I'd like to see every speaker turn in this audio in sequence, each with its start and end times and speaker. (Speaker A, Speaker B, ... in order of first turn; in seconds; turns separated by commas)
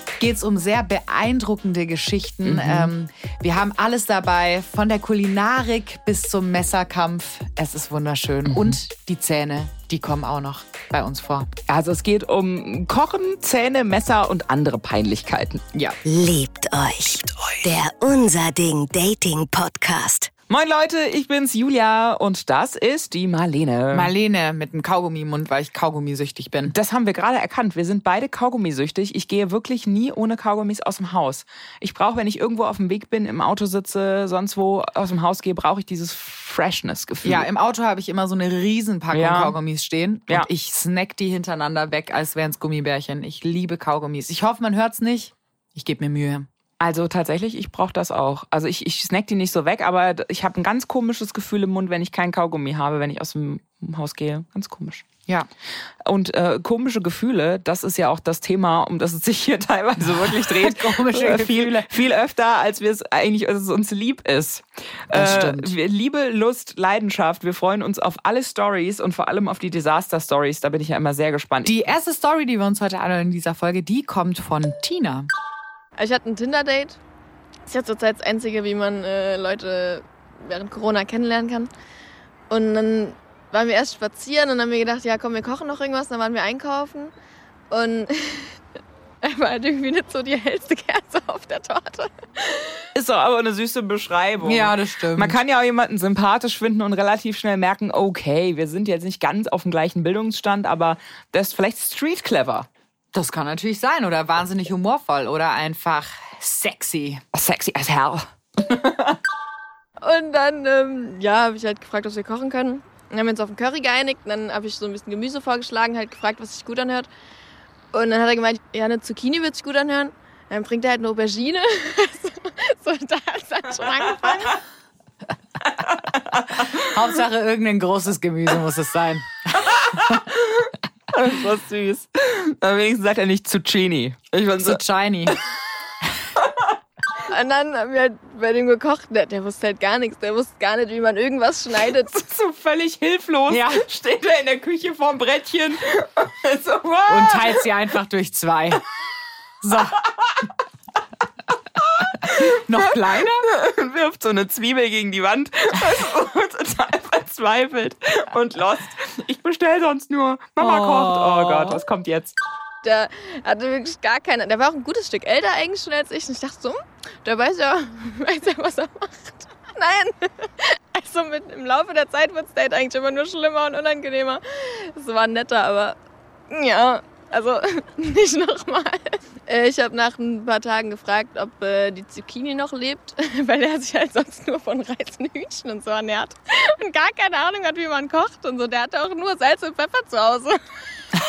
Speaker A: 0.2-11.5, Speaker B: 2.4-2.9, Speaker B: 8.5-8.8, Speaker B: 11.7-15.6, Speaker C: 16.1-20.3, Speaker B: 20.5-24.1, Speaker A: 23.9-26.8, Speaker B: 26.6-37.5, Speaker A: 37.2-46.5, Speaker B: 39.1-39.6, Speaker B: 46.8-55.0, Speaker B: 56.1-71.8, Speaker A: 60.0-61.9, Speaker A: 65.1-65.7, Speaker A: 71.6-75.3, Speaker D: 76.0-77.0, Speaker D: 77.7-81.7, Speaker D: 82.5-87.1, Speaker D: 87.7-88.6, Speaker D: 89.2-92.8, Speaker B: 92.9-102.7, Speaker A: 94.4-95.4, Speaker A: 103.1-107.2, Speaker B: 107.3-109.2, Speaker D: 110.0-117.1, Speaker D: 117.9-124.6, Speaker B: 125.7-126.9, Speaker A: 126.8-130.2, Speaker B: 129.8-135.3, Speaker A: 134.6-135.4, Speaker B: 136.4-136.7, Speaker D: 137.3-142.2, Speaker B: 142.1-147.7, Speaker A: 143.5-143.8, Speaker A: 147.1-148.8, Speaker A: 149.6-150.0, Speaker B: 149.9-150.4, Speaker B: 151.8-162.4, Speaker A: 152.5-153.5, Speaker A: 160.6-161.8, Speaker D: 162.8-176.0, Speaker D: 176.5-190.6